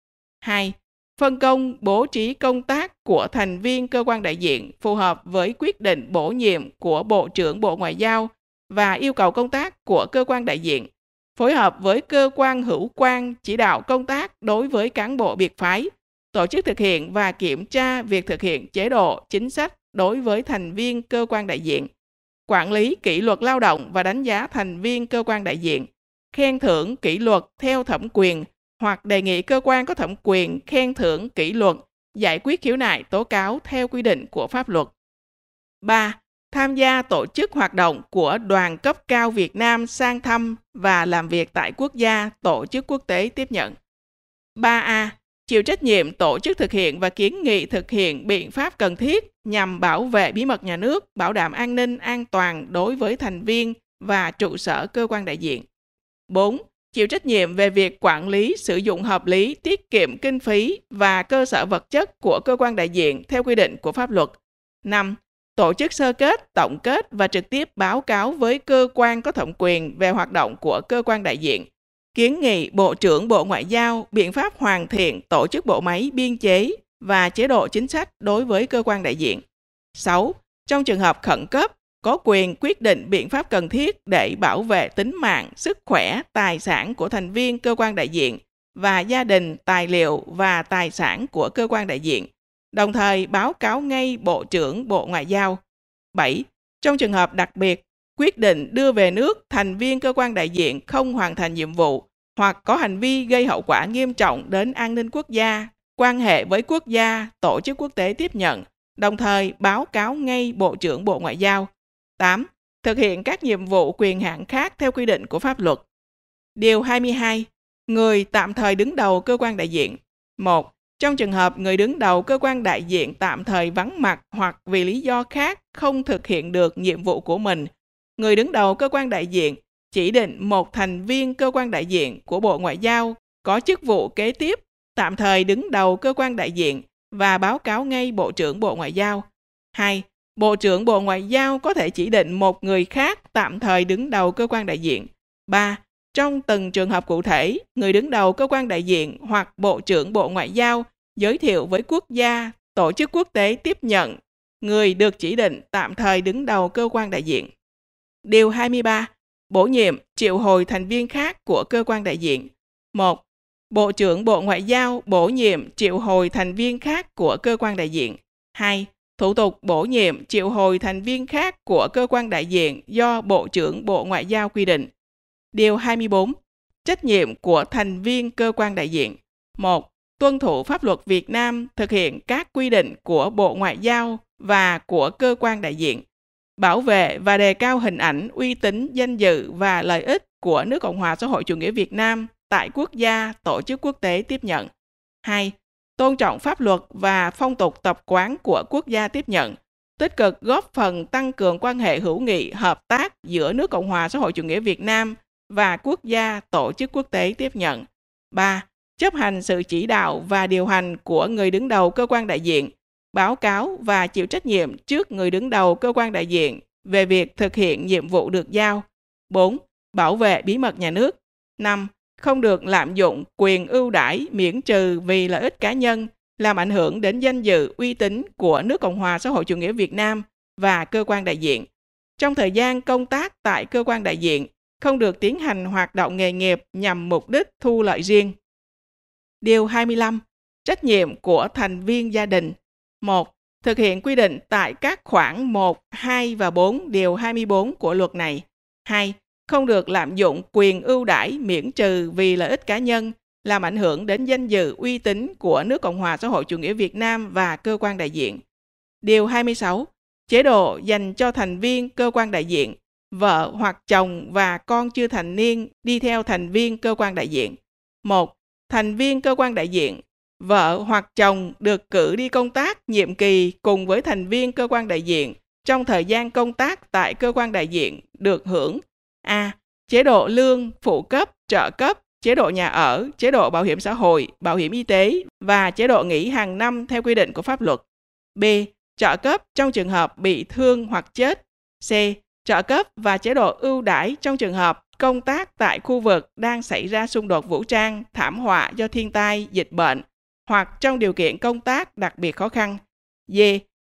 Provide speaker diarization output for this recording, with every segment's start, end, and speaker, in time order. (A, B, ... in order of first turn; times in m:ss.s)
0:00.4-0:21.9 A
0:22.5-0:34.9 A
0:35.8-0:43.8 A
0:44.6-0:55.6 A
0:56.3-1:19.4 A
1:20.0-1:35.6 A
1:36.1-1:55.8 A
1:56.6-2:37.5 A
2:38.2-2:54.9 A
2:55.5-3:06.0 A
3:06.6-3:14.7 A
3:15.2-3:51.7 A
3:52.2-3:58.3 A
3:59.4-4:18.4 A
4:19.0-4:47.8 A
4:48.4-5:03.6 A